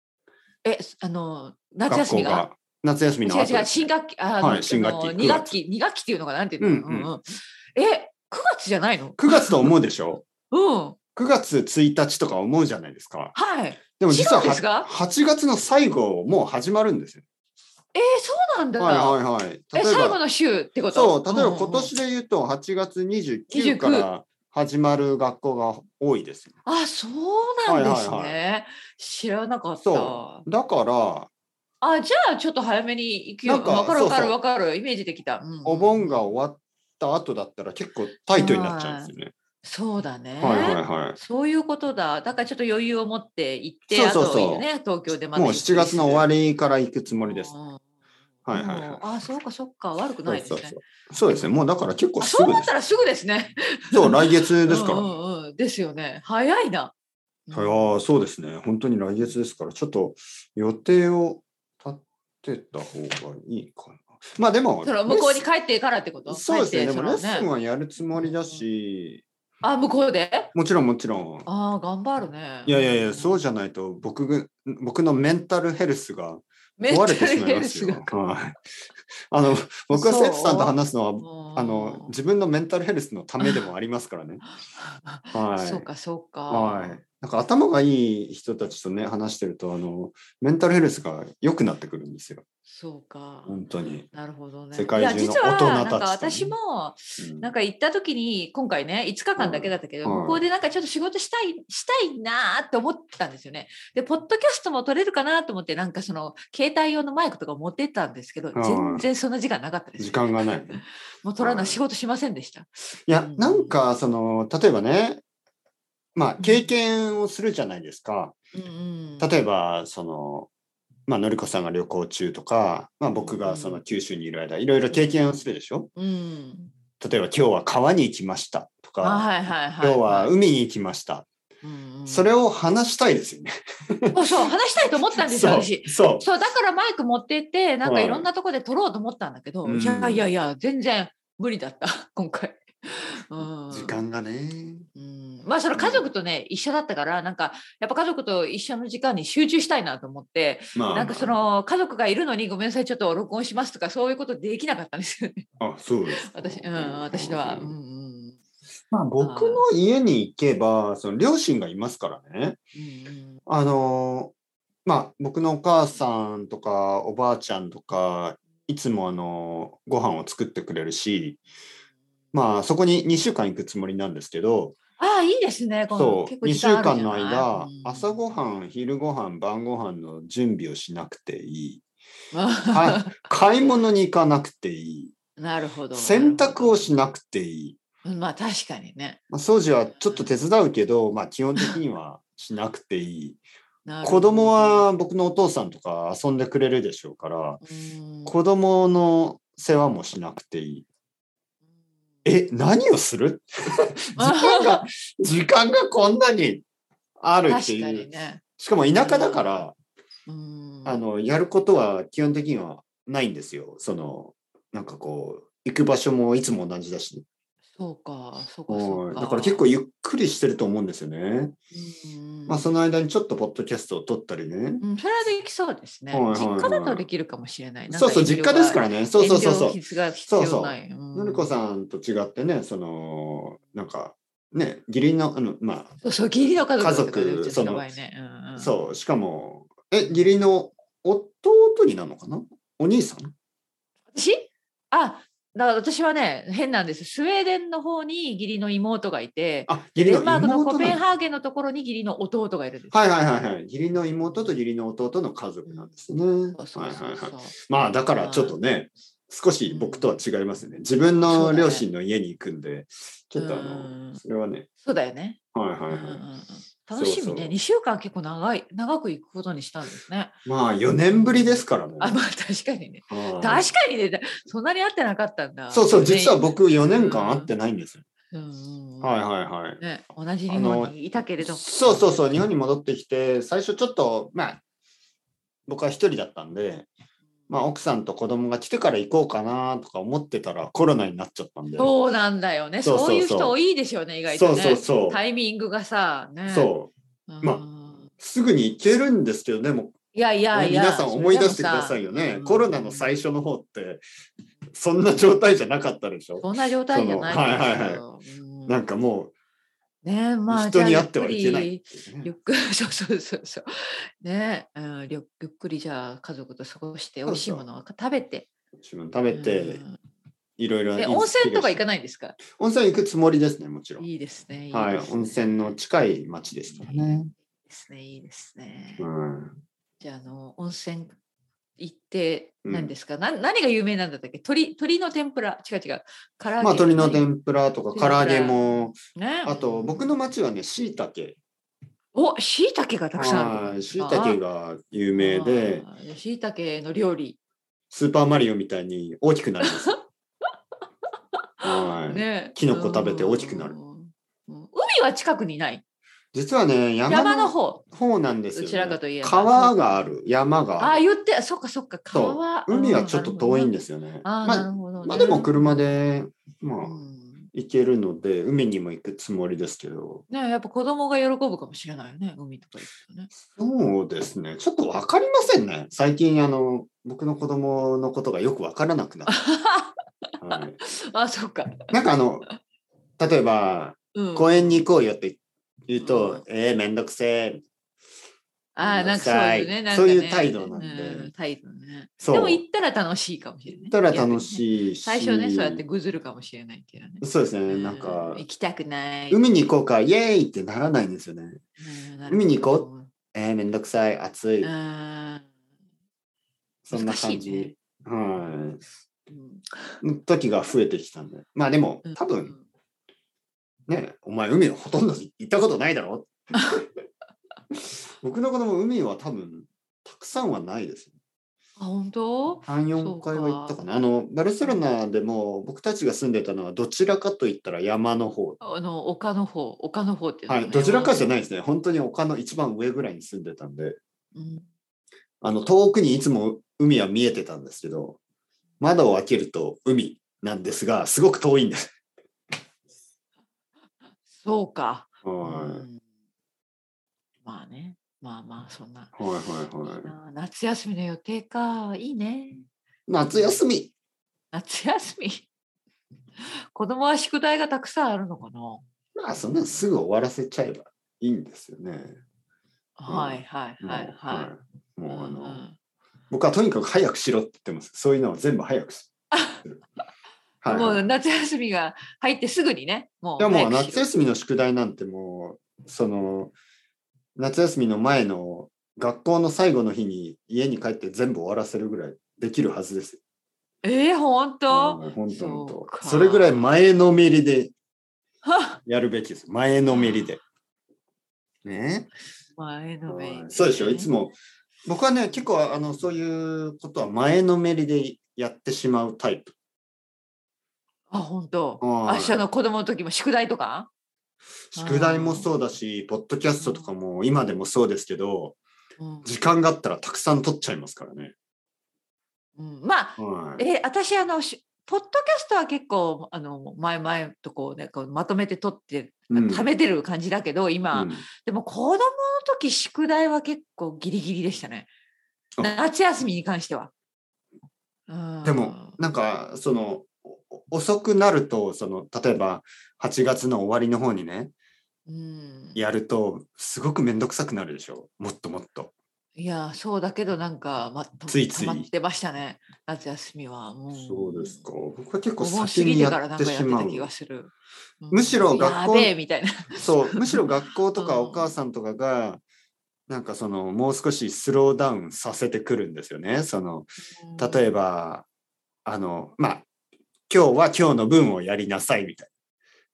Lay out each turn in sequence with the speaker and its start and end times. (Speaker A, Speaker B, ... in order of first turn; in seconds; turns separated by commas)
Speaker A: 0.6-2.5, Speaker B: 1.9-3.9, Speaker A: 3.2-9.7, Speaker B: 4.4-5.5, Speaker B: 6.6-7.1, Speaker B: 9.2-10.2, Speaker A: 10.5-11.0, Speaker B: 11.2-13.3, Speaker A: 13.3-14.9, Speaker B: 14.0-17.2, Speaker A: 17.9-19.2, Speaker B: 18.8-20.2, Speaker A: 19.7-21.9, Speaker B: 20.9-26.5, Speaker A: 23.5-24.1, Speaker A: 26.6-30.4, Speaker B: 27.6-28.4, Speaker B: 29.8-31.3, Speaker A: 31.8-36.3, Speaker B: 33.4-34.4, Speaker B: 35.6-39.3, Speaker A: 38.3-39.1, Speaker A: 39.6-46.3, Speaker B: 40.4-41.2, Speaker B: 43.9-44.7, Speaker B: 45.3-47.5, Speaker A: 47.2-47.8, Speaker B: 48.5-49.0, Speaker A: 48.5-50.8, Speaker B: 50.2-52.7, Speaker A: 52.2-56.9, Speaker B: 53.9-55.1, Speaker A: 57.5-57.9, Speaker B: 57.5-65.4, Speaker A: 64.8-67.5, Speaker B: 66.3-69.2, Speaker A: 68.1-68.6, Speaker A: 69.6-70.5, Speaker B: 70.5-71.5, Speaker A: 71.5-73.4, Speaker B: 72.7-78.6, Speaker A: 76.8-78.1, Speaker B: 79.3-84.4, Speaker A: 79.9-82.1, Speaker A: 83.4-83.7, Speaker A: 84.7-87.0, Speaker B: 85.3-85.9, Speaker B: 86.5-92.4, Speaker A: 92.7-93.6, Speaker B: 93.5-94.1, Speaker A: 94.1-113.7, Speaker B: 94.7-96.5, Speaker B: 97.2-97.5, Speaker B: 99.4-100.4, Speaker B: 108.5-109.0, Speaker B: 110.0-110.8, Speaker B: 111.4-111.8, Speaker B: 113.1-115.2, Speaker B: 116.2-118.3, Speaker A: 116.4-116.7, Speaker A: 118.5-119.3, Speaker B: 119.2-120.5, Speaker B: 121.1-125.9, Speaker A: 123.2-123.8, Speaker A: 124.9-125.3, Speaker A: 126.0-126.7, Speaker B: 127.0-131.2, Speaker A: 129.0-130.3, Speaker A: 131.6-132.3, Speaker B: 132.1-134.5, Speaker A: 134.1-144.0, Speaker B: 135.2-136.3, Speaker B: 137.8-138.2, Speaker B: 139.6-140.3, Speaker B: 143.4-144.9, Speaker A: 144.9-155.4, Speaker B: 145.7-146.1, Speaker B: 150.7-151.4, Speaker B: 155.6-157.7, Speaker A: 156.1-158.4, Speaker B: 158.9-162.6, Speaker A: 159.2-159.6, Speaker A: 162.8-163.4, Speaker B: 163.5-164.3, Speaker B: 164.8-171.4, Speaker B: 172.3-174.8, Speaker A: 175.0-178.2, Speaker B: 175.9-181.8, Speaker A: 182.3-183.2, Speaker B: 182.7-185.1, Speaker A: 185.4-186.8, Speaker B: 185.9-187.8, Speaker A: 188.0-189.2, Speaker B: 189.3-193.4, Speaker A: 193.8-194.8, Speaker B: 194.0-197.6, Speaker A: 197.6-198.3, Speaker B: 198.3-200.8, Speaker B: 202.2-206.6, Speaker A: 204.2-204.9, Speaker B: 207.2-208.1, Speaker A: 207.5-208.4, Speaker B: 208.6-209.7, Speaker A: 208.9-209.7, Speaker A: 210.3-211.0, Speaker B: 210.8-217.2, Speaker A: 217.7-219.7, Speaker B: 218.7-221.5, Speaker A: 221.7-222.7, Speaker B: 222.5-224.8, Speaker A: 224.8-231.5, Speaker B: 226.1-227.1, Speaker B: 227.9-235.9, Speaker A: 236.0-238.7, Speaker B: 236.8-237.8, Speaker B: 238.6-243.3, Speaker A: 244.1-253.0, Speaker B: 249.7-251.0, Speaker B: 252.9-264.7, Speaker A: 256.5-257.5, Speaker A: 258.1-258.6, Speaker A: 259.7-260.2, Speaker A: 261.2-261.9, Speaker A: 263.4-264.2, Speaker A: 264.8-270.4, Speaker B: 265.5-266.2, Speaker B: 266.9-267.6, Speaker B: 270.4-272.2, Speaker A: 271.1-277.5, Speaker B: 273.1-273.7, Speaker B: 275.7-278.0, Speaker A: 278.3-279.2, Speaker B: 279.0-279.8, Speaker A: 279.8-282.3, Speaker B: 280.5-284.6, Speaker B: 285.7-286.9, Speaker B: 287.5-291.9, Speaker A: 291.8-296.7, Speaker B: 292.8-293.6, Speaker B: 294.3-295.2, Speaker B: 296.5-296.9, Speaker A: 297.3-298.1, Speaker B: 298.2-299.9, Speaker A: 300.1-303.1, Speaker B: 300.5-304.0, Speaker B: 304.7-308.0, Speaker A: 306.4-308.8, Speaker B: 308.7-309.3, Speaker A: 310.0-313.6, Speaker B: 310.5-312.3, Speaker A: 314.2-318.5, Speaker B: 317.2-317.6, Speaker B: 318.8-319.8, Speaker A: 319.3-320.0, Speaker B: 320.6-321.8, Speaker A: 321.0-322.4, Speaker B: 322.5-324.0, Speaker A: 324.0-325.8, Speaker B: 324.7-327.3, Speaker A: 326.7-329.1, Speaker B: 329.0-329.6, Speaker A: 330.0-331.1, Speaker A: 331.8-337.3, Speaker B: 332.6-332.9, Speaker B: 336.6-341.4, Speaker A: 337.9-340.1, Speaker A: 342.1-344.4, Speaker B: 343.2-345.9, Speaker A: 345.1-347.4, Speaker B: 347.9-349.9, Speaker A: 349.6-349.9, Speaker A: 351.6-355.8, Speaker B: 351.6-353.8, Speaker B: 356.3-361.0, Speaker A: 357.1-357.8, Speaker A: 358.5-360.0, Speaker A: 360.8-363.7, Speaker B: 362.1-367.0, Speaker A: 364.2-365.9, Speaker A: 366.8-367.5, Speaker B: 367.5-370.2, Speaker A: 370.3-373.3, Speaker B: 373.4-379.4, Speaker A: 379.3-379.9, Speaker B: 380.4-380.8, Speaker A: 380.5-381.9, Speaker B: 381.9-382.4, Speaker B: 383.2-387.6, Speaker A: 384.1-384.9, Speaker A: 386.0-386.4, Speaker A: 388.8-399.4, Speaker B: 388.8-391.3, Speaker B: 392.2-392.6, Speaker B: 393.7-395.8, Speaker B: 397.2-398.4, Speaker B: 399.3-401.6, Speaker A: 401.8-403.1, Speaker B: 402.3-404.7, Speaker A: 404.6-405.5, Speaker B: 406.9-408.8, Speaker A: 406.9-407.7, Speaker A: 409.3-410.0, Speaker B: 410.0-412.5, Speaker A: 412.0-412.6, Speaker B: 413.9-416.8, Speaker A: 416.5-416.8, Speaker B: 418.2-421.1, Speaker A: 421.8-423.9, Speaker B: 422.7-428.6, Speaker A: 428.6-431.3, Speaker B: 430.5-434.0, Speaker A: 434.3-434.7, Speaker B: 435.4-438.2, Speaker B: 438.8-441.9, Speaker A: 444.1-446.0, Speaker B: 445.2-445.8, Speaker A: 447.4-449.2, Speaker B: 449.1-450.1, Speaker A: 449.8-452.6, Speaker B: 453.1-453.9, Speaker A: 453.3-453.6, Speaker A: 454.5-455.5, Speaker A: 456.7-458.8, Speaker B: 459.2-462.2, Speaker A: 463.0-464.5, Speaker B: 463.1-465.6, Speaker A: 465.1-465.8, Speaker B: 466.3-469.1, Speaker A: 469.3-469.6, Speaker B: 470.6-471.1, Speaker A: 470.7-474.1, Speaker B: 473.4-476.5, Speaker B: 477.4-483.2, Speaker A: 483.8-486.7, Speaker B: 484.7-487.7, Speaker A: 488.4-488.8, Speaker B: 488.9-490.4, Speaker A: 489.9-490.2, Speaker B: 491.6-492.1, Speaker A: 492.5-494.1, Speaker B: 493.1-494.3, Speaker B: 494.9-499.5, Speaker A: 501.1-503.9, Speaker B: 501.8-502.4, Speaker B: 504.7-508.6, Speaker A: 504.8-505.5, Speaker A: 506.6-506.9, Speaker A: 509.0-509.3, Speaker B: 509.2-511.3, Speaker A: 512.6-524.9, Speaker B: 513.2-513.6, Speaker B: 519.3-519.7, Speaker B: 520.9-521.2, Speaker A: 525.6-526.9, Speaker A: 528.1-529.0, Speaker B: 528.4-534.5, Speaker A: 535.1-535.8, Speaker B: 535.8-538.9, Speaker A: 539.4-544.6, Speaker B: 541.3-541.9, Speaker B: 543.9-547.1, Speaker A: 545.4-550.4, Speaker B: 548.1-549.1, Speaker B: 549.8-552.4, Speaker A: 551.0-551.5, Speaker B: 553.1-558.2, Speaker A: 557.1-557.7, Speaker B: 558.9-559.6, Speaker B: 560.3-562.3